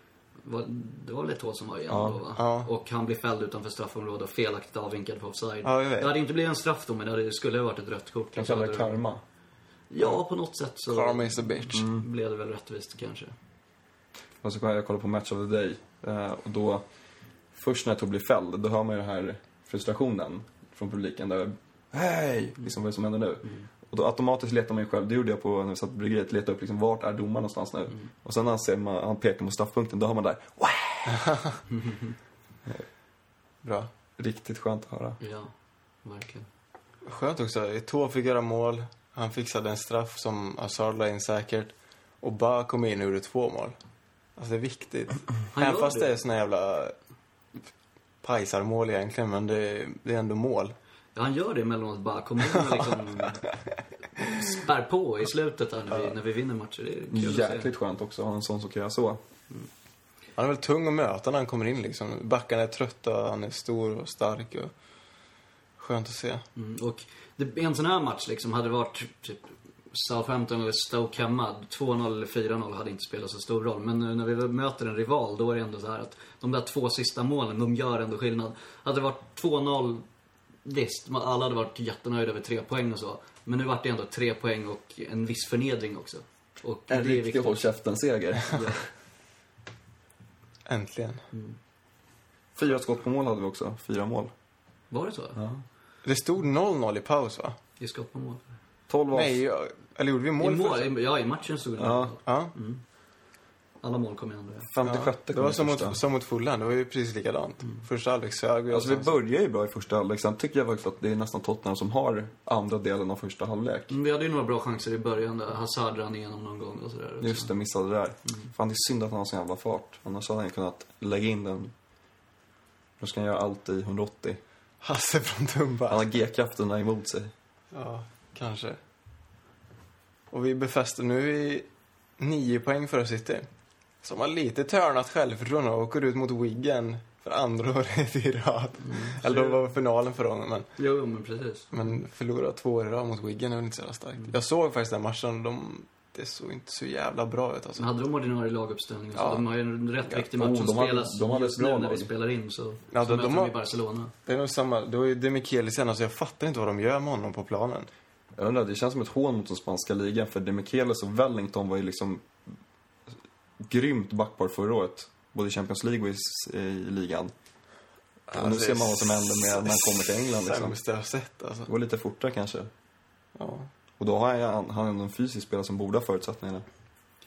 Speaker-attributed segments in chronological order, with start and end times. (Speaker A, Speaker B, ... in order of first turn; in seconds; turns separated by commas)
Speaker A: 0.4-9.0, Speaker B: 1.9-2.2, Speaker C: 2.4-2.7, Speaker C: 5.6-6.1, Speaker B: 8.3-9.2, Speaker A: 9.9-13.3, Speaker C: 10.9-11.8, Speaker B: 11.7-12.1, Speaker B: 14.4-16.8, Speaker B: 17.5-31.3, Speaker A: 31.7-32.1, Speaker C: 33.6-33.9, Speaker B: 34.2-35.2, Speaker A: 35.2-35.5, Speaker A: 36.0-36.5, Speaker C: 37.0-43.8, Speaker C: 44.4-47.0, Speaker A: 45.5-46.2, Speaker C: 48.2-50.8, Speaker A: 51.1-53.5, Speaker C: 52.5-53.6, Speaker A: 54.3-57.7, Speaker B: 57.1-59.2, Speaker C: 60.4-64.7, Speaker C: 65.8-66.5, Speaker A: 66.6-80.0, Speaker A: 80.7-87.7, Speaker B: 86.9-88.9, Speaker A: 88.5-88.8, Speaker C: 90.7-91.2, Speaker B: 92.5-94.3, Speaker A: 94.9-95.4, Speaker B: 95.4-95.6, Speaker C: 96.0-97.6, Speaker A: 97.8-98.5, Speaker B: 98.9-99.4, Speaker C: 99.1-100.9, Speaker A: 100.4-102.8, Speaker B: 101.8-102.1, Speaker C: 102.2-102.5, Speaker A: 103.8-104.7, Speaker B: 104.7-106.0, Speaker C: 104.8-109.2, Speaker B: 108.7-114.0, Speaker A: 113.9-117.5, Speaker B: 117.2-121.7, Speaker B: 123.0-124.4, Speaker C: 124.8-126.0, Speaker B: 125.9-127.3, Speaker C: 127.7-128.8, Speaker C: 130.3-131.7, Speaker C: 132.2-133.5, Speaker C: 134.0-140.7, Speaker A: 138.8-139.6, Speaker A: 140.8-141.7, Speaker C: 141.7-147.9, Speaker A: 147.8-154.1, Speaker C: 149.2-149.4, Speaker B: 150.1-152.1, Speaker C: 152.9-153.6, Speaker C: 154.2-157.9, Speaker B: 158.4-162.3, Speaker B: 163.6-167.3, Speaker C: 168.3-171.7, Speaker B: 168.3-170.8, Speaker B: 171.7-172.7, Speaker C: 173.4-173.7, Speaker B: 174.0-176.7